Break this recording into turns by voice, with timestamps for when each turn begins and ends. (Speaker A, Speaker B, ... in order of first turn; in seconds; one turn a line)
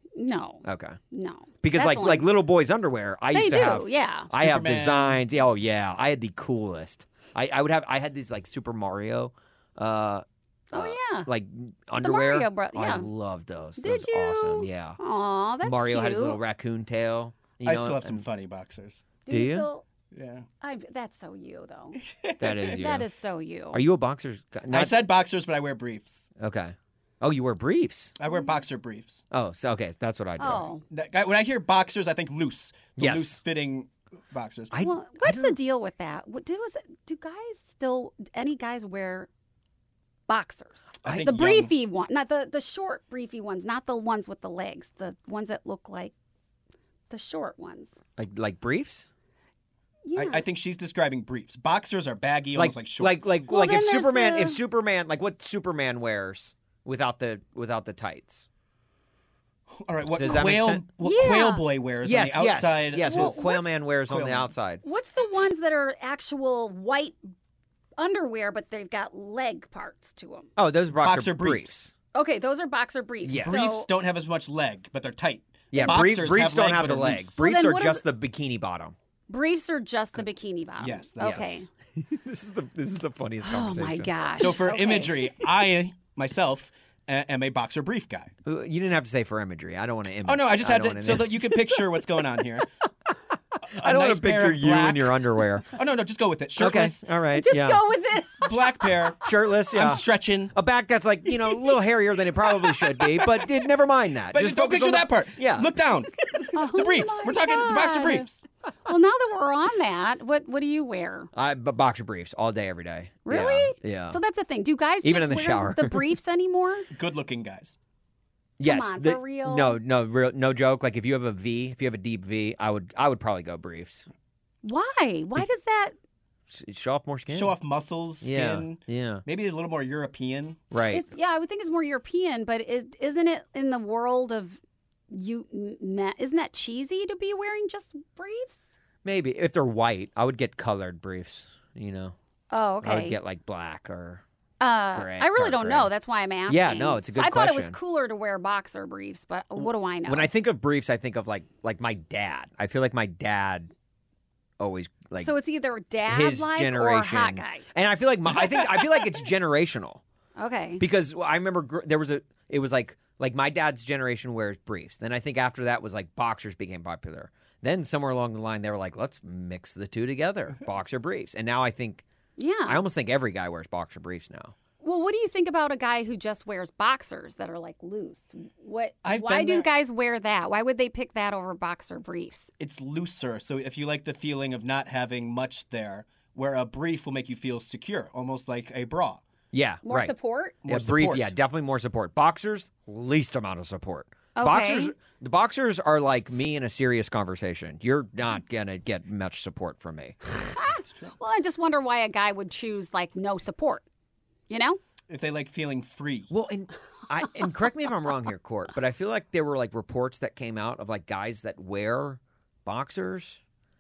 Speaker A: 0.2-2.3
Speaker B: 0.7-1.0
Speaker B: 1.6-15.0
Speaker A: 3.3-4.3
Speaker C: 4.3-5.2
Speaker A: 10.7-11.3
Speaker A: 12.0-13.1
Speaker A: 13.8-16.4
Speaker B: 15.6-18.2
Speaker C: 17.6-19.1
Speaker A: 19.3-19.8
Speaker B: 19.3-19.7
Speaker C: 20.1-20.5
Speaker A: 20.6-22.0
Speaker C: 22.1-22.8
Speaker B: 22.4-23.1
Speaker A: 22.7-23.8
Speaker B: 23.7-25.1
Speaker C: 24.7-26.3
Speaker B: 26.4-28.1
Speaker C: 28.2-29.2
Speaker B: 29.3-30.7
Speaker A: 30.4-30.8
Speaker C: 30.9-34.7
Speaker B: 33.0-33.4
Speaker B: 34.7-35.6
Speaker A: 34.8-39.3
Speaker A: 40.3-46.1
Speaker C: 41.0-41.7
Speaker B: 41.0-41.4
Speaker A: 47.1-48.0
Speaker B: 48.2-49.1
Speaker A: 50.0-50.5
Speaker C: 50.2-53.4
Speaker B: 52.5-58.5
Speaker A: 53.5-54.6
Speaker C: 59.8-63.5
Speaker B: 60.2-60.8
Speaker A: 61.0-61.7
Speaker B: 62.0-64.8
Speaker A: 63.0-63.7
Speaker C: 64.1-64.5
Speaker A: 64.8-67.3
Speaker A: 68.0-70.5
Speaker B: 70.6-71.9
Speaker C: 71.0-71.8
Speaker A: 72.1-73.9
Speaker B: 73.2-73.6
Speaker C: 73.4-77.3
Speaker B: 75.7-79.0
Speaker A: 75.8-76.1
Speaker A: 77.4-78.0
Speaker A: 79.3-81.7
Speaker C: 80.8-81.7
Speaker B: 81.2-84.7
Speaker A: 83.4-85.3
Speaker C: 84.4-88.3
Speaker B: 88.5-91.7
Speaker C: 90.3-92.7
Speaker C: 93.7-95.2
Speaker B: 93.7-95.8
Speaker C: 95.7-97.0
Speaker B: 96.6-97.9
Speaker A: 97.3-98.9
Speaker C: 98.4-100.5
Speaker B: 99.2-105.8
Speaker C: 104.3-108.4
Speaker A: 106.5-108.3
Speaker A: 108.9-111.3
Speaker B: 111.3-114.2
Speaker A: 113.3-116.9
Speaker B: 115.0-116.2
Speaker C: 116.9-117.8
Speaker B: 118.6-124.1
Speaker A: 118.6-119.8
Speaker A: 124.6-126.0
Speaker B: 126.5-127.6
Speaker C: 127.3-130.6
Speaker B: 128.2-129.2
Speaker B: 130.7-131.1
Speaker A: 130.9-134.6
Speaker A: 135.1-138.6
Speaker B: 139.0-142.2
Speaker A: 142.5-143.2
Speaker B: 142.8-144.2
Speaker A: 144.6-150.3
Speaker B: 144.9-145.9
Speaker B: 146.5-147.8
Speaker B: 149.6-153.7
Speaker B: 154.6-155.4
Speaker A: 155.2-157.7
Speaker B: 156.1-160.0
Speaker A: 160.4-160.8
Speaker B: 160.8-172.0
Speaker A: 172.4-172.8
Speaker B: 172.7-174.6
Speaker A: 174.8-182.5
Speaker C: 179.0-179.7
Speaker C: 182.6-189.2
Speaker B: 189.5-190.1
Speaker A: 189.8-190.6
Speaker C: 190.6-191.3
Speaker B: 190.7-200.2
Speaker A: 194.4-194.9
Speaker A: 200.4-203.8
Speaker C: 200.8-201.1
Speaker A: 204.5-204.8
Speaker C: 205.1-206.3
Speaker B: 206.3-213.4